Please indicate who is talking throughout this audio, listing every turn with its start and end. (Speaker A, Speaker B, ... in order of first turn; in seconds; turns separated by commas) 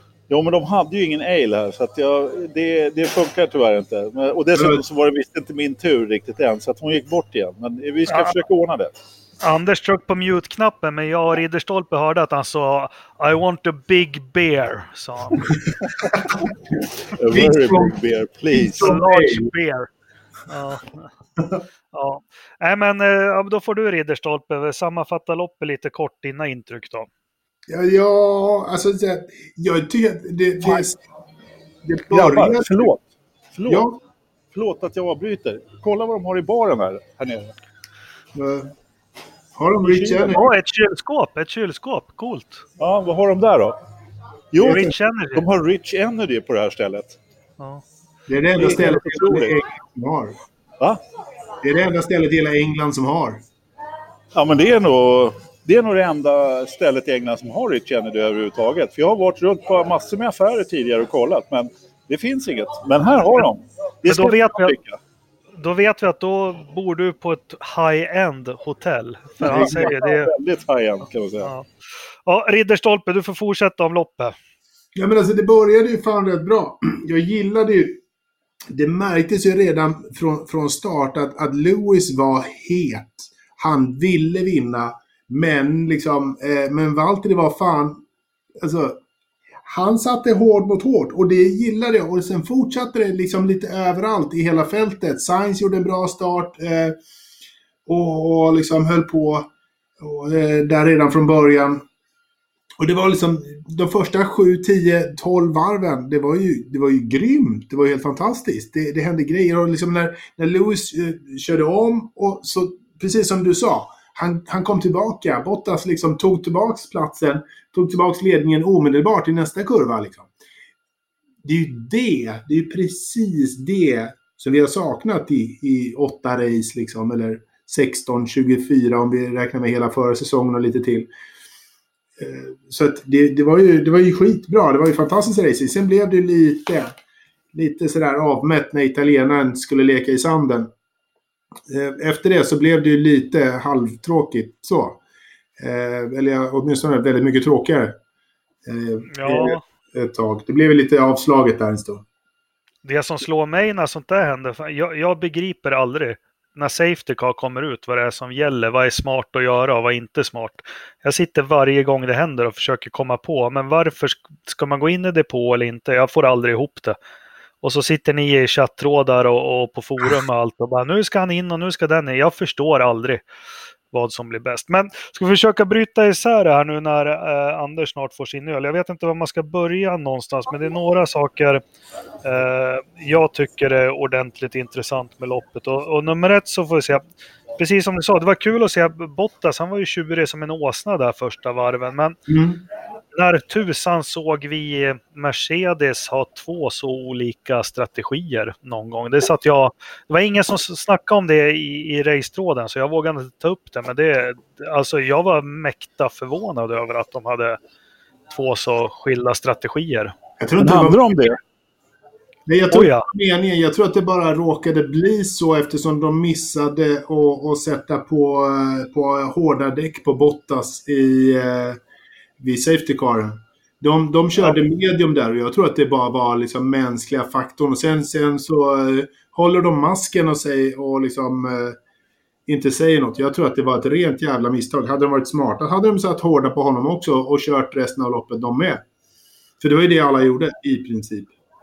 Speaker A: 0.3-8.9, Speaker B: 4.6-4.8, Speaker C: 8.1-8.3, Speaker C: 9.4-15.5, Speaker A: 17.1-19.0, Speaker B: 17.3-18.0, Speaker C: 18.5-19.9, Speaker B: 18.5-19.5, Speaker C: 20.5-21.1, Speaker C: 21.9-27.1, Speaker B: 27.7-31.0, Speaker B: 31.8-32.9, Speaker A: 32.1-33.9, Speaker B: 33.7-34.0, Speaker A: 34.5-37.5, Speaker B: 38.4-38.7, Speaker B: 39.5-40.5, Speaker A: 39.8-40.4, Speaker C: 40.3-42.6, Speaker A: 42.8-43.8, Speaker A: 44.5-47.2, Speaker C: 44.6-45.4, Speaker B: 48.3-50.4, Speaker A: 48.6-49.6, Speaker B: 51.6-53.4, Speaker A: 54.3-65.0, Speaker C: 64.1-64.8, Speaker C: 65.6-70.3, Speaker A: 69.4-71.5, Speaker B: 69.4-69.9, Speaker C: 71.4-71.7, Speaker C: 72.3-74.3, Speaker B: 75.0-78.0, Speaker B: 78.7-88.0, Speaker B: 88.6-89.0, Speaker B: 89.7-97.0, Speaker B: 97.9-101.8, Speaker B: 102.8-120.3, Speaker B: 121.4-131.1, Speaker B: 132.2-136.9, Speaker B: 137.5-140.7, Speaker B: 141.7-145.0, Speaker B: 145.6-148.0, Speaker B: 148.7-152.1, Speaker C: 149.1-149.6, Speaker C: 152.8-167.0, Speaker C: 167.6-173.2, Speaker C: 173.9-181.6, Speaker C: 182.2-187.0, Speaker C: 187.6-192.2, Speaker B: 192.3-192.6, Speaker C: 193.1-207.6, Speaker C: 208.3-210.1, Speaker B: 210.4-211.1, Speaker A: 210.6-211.4, Speaker B: 212.5-221.8, Speaker C: 212.7-213.1, Speaker B: 222.4-231.8, Speaker B: 232.5-238.8, Speaker B: 239.6-241.3